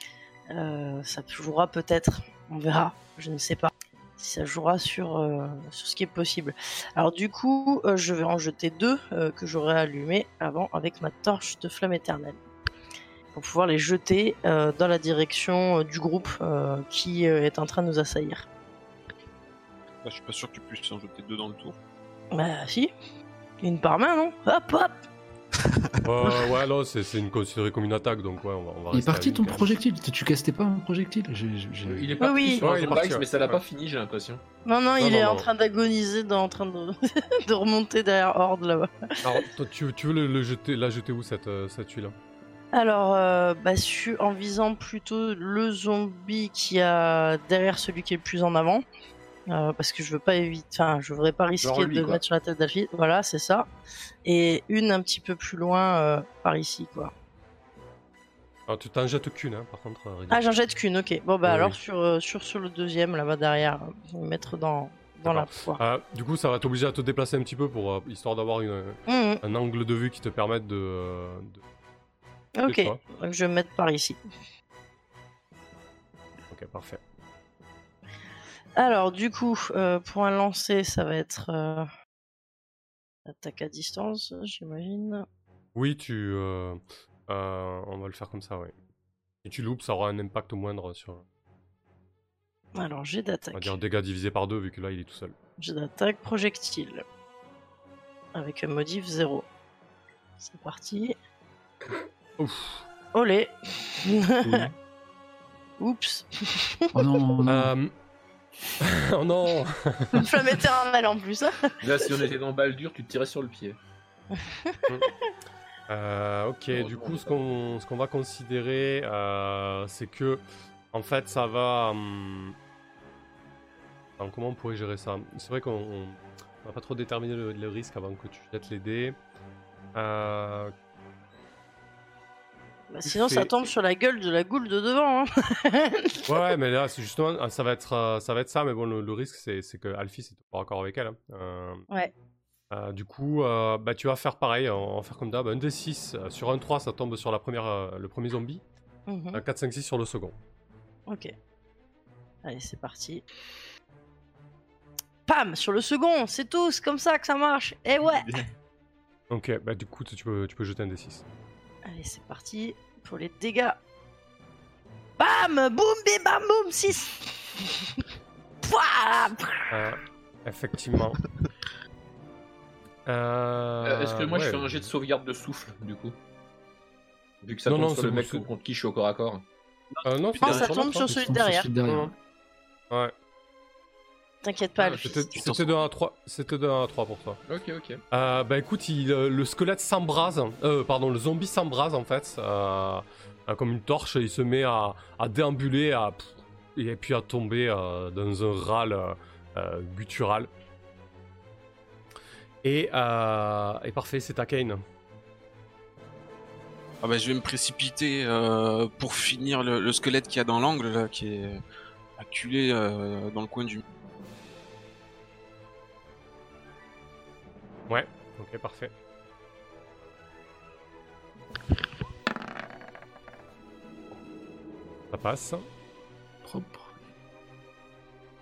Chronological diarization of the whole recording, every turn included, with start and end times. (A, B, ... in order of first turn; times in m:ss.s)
0:00.5-0:12.4 A
0:13.3-0:18.4 A
0:20.0-0:21.8 B
0:22.3-0:22.9 A
0:23.6-0:25.0 A
0:26.0-0:29.7 C
0:28.9-0:32.1 D
0:31.8-0:34.4 E
0:32.2-0:32.6 A
0:32.6-0:33.6 C
0:34.6-0:39.2 A
0:35.0-0:35.4 C
0:39.2-0:42.1 C
0:42.7-0:48.8 A
0:49.5-0:53.7 A
0:51.6-0:52.2 E
0:54.2-0:57.1 A
0:58.7-1:00.4 C
1:00.3-1:05.8 A
1:01.4-1:01.8 C
1:05.2-1:11.6 C
1:09.1-1:09.4 A
1:12.6-1:14.2 A
1:12.7-1:13.0 C
1:16.5-1:17.0 C
1:18.8-1:21.9 A
1:23.2-1:25.2 A
1:25.7-1:28.7 C
1:29.4-1:31.2 C
1:32.7-1:33.7 A
1:33.5-1:35.3 C
1:35.6-1:37.0 A
1:38.3-1:39.5 A
1:40.4-1:41.2 A
1:42.4-1:42.8 C
1:43.1-1:44.6 A
1:45.8-1:47.2 A
1:46.9-1:47.7 D
1:47.4-1:47.9 C
1:48.8-1:50.3 C
1:50.1-1:52.1 A
1:51.8-1:53.8 E
1:54.4-1:54.8 A
1:55.9-2:02.6 C
1:56.7-1:57.5 E
2:04.2-2:09.2 C
2:09.9-2:10.7 C
2:12.9-2:16.4 A
2:13.0-2:13.5 C
2:16.3-2:21.8 C
2:22.7-2:28.6 C
2:29.1-2:29.4 A
2:29.3-2:30.4 C
2:31.1-2:31.3 A
2:32.4-2:33.2 A
2:35.2-2:38.4 A
2:39.3-2:41.2 C
2:41.8-2:43.8 A
2:45.2-2:47.5 A
2:48.6-2:49.7 A
2:49.7-2:51.2 C
2:53.0-2:54.9 C
2:53.8-2:56.2 E
2:57.4-2:59.4 E
2:57.6-2:58.4 C
2:59.9-3:00.7 B
3:00.0-3:01.1 C
3:00.4-3:01.7 A
3:01.0-3:02.1 D
3:01.9-3:02.1 C
3:04.4-3:05.3 A
3:04.8-3:05.2 E
3:05.0-3:07.4 C
3:05.3-3:05.8 B
3:07.5-3:08.0 E
3:08.1-3:20.5 C
3:22.6-3:24.8 C
3:27.0-3:31.6 B
3:32.2-3:33.8 B
3:37.9-3:38.9 C
3:45.1-3:45.6 C
3:46.4-3:46.9 D